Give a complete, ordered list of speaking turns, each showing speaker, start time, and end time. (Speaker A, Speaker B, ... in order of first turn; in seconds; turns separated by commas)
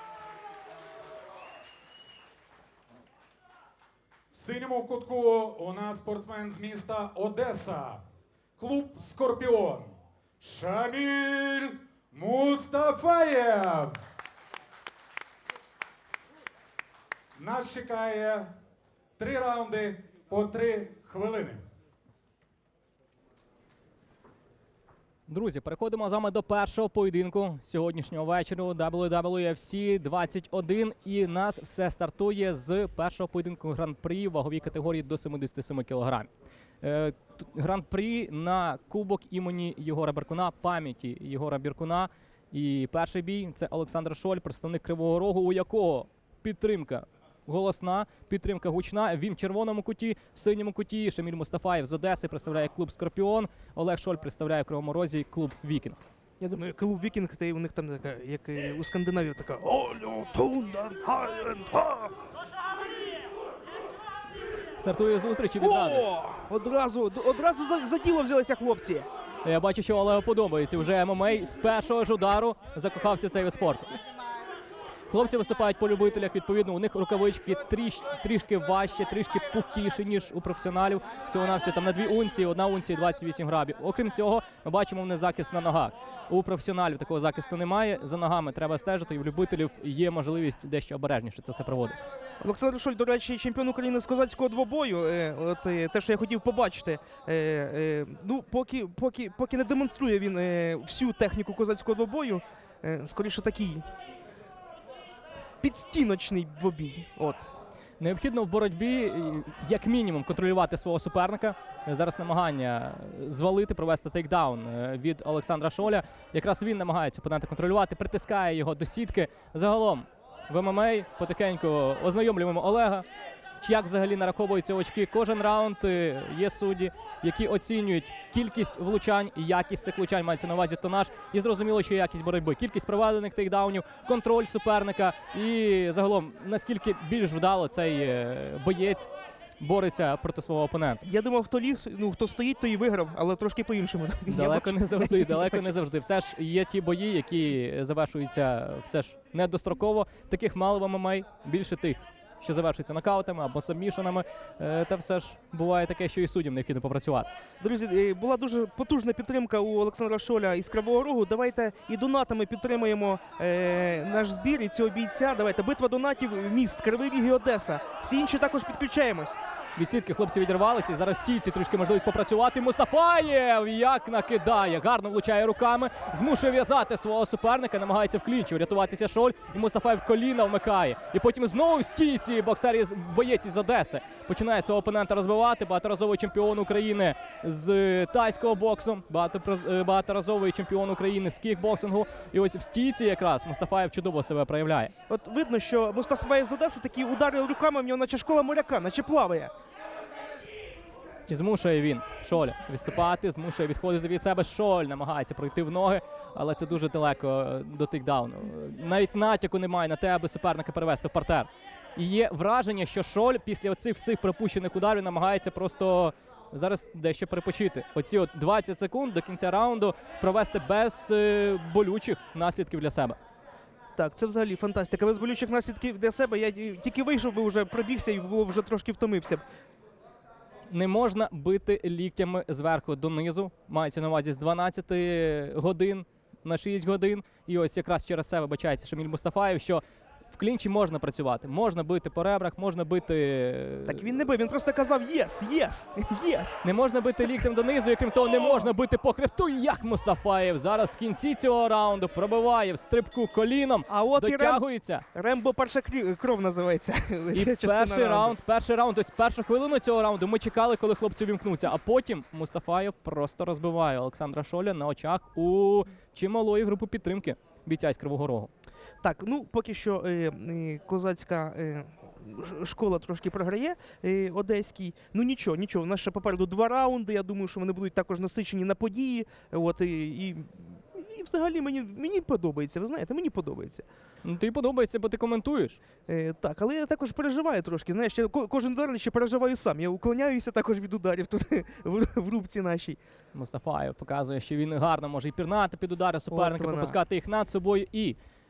Speaker A: 4.3-8.0, Speaker A: 8.6-14.0, Speaker A: 17.4-18.5, Speaker A: 19.2-21.6, Speaker B: 25.3-36.3, Speaker B: 36.8-56.0, Speaker C: 56.4-62.1, Speaker B: 64.8-66.1, Speaker C: 65.6-69.1, Speaker B: 69.4-73.9, Speaker B: 75.1-92.0, Speaker C: 92.4-103.8, Speaker C: 105.6-107.5, Speaker B: 108.0-123.0, Speaker B: 123.6-139.1, Speaker B: 139.6-141.0, Speaker C: 141.0-145.7, Speaker B: 144.3-157.3, Speaker C: 157.6-169.4, Speaker B: 169.8-194.9, Speaker C: 195.1-199.5, Speaker B: 201.3-223.2, Speaker C: 224.0-229.4, Speaker B: 230.7-244.1, Speaker C: 243.9-246.6, Speaker B: 246.6-255.0, Speaker C: 248.2-248.7, Speaker C: 253.9-254.6, Speaker C: 255.1-258.4, Speaker B: 257.3-268.5, Speaker C: 269.0-283.8, Speaker B: 284.2-285.8, Speaker C: 286.1-293.0, Speaker B: 293.3-298.1, Speaker C: 296.3-297.0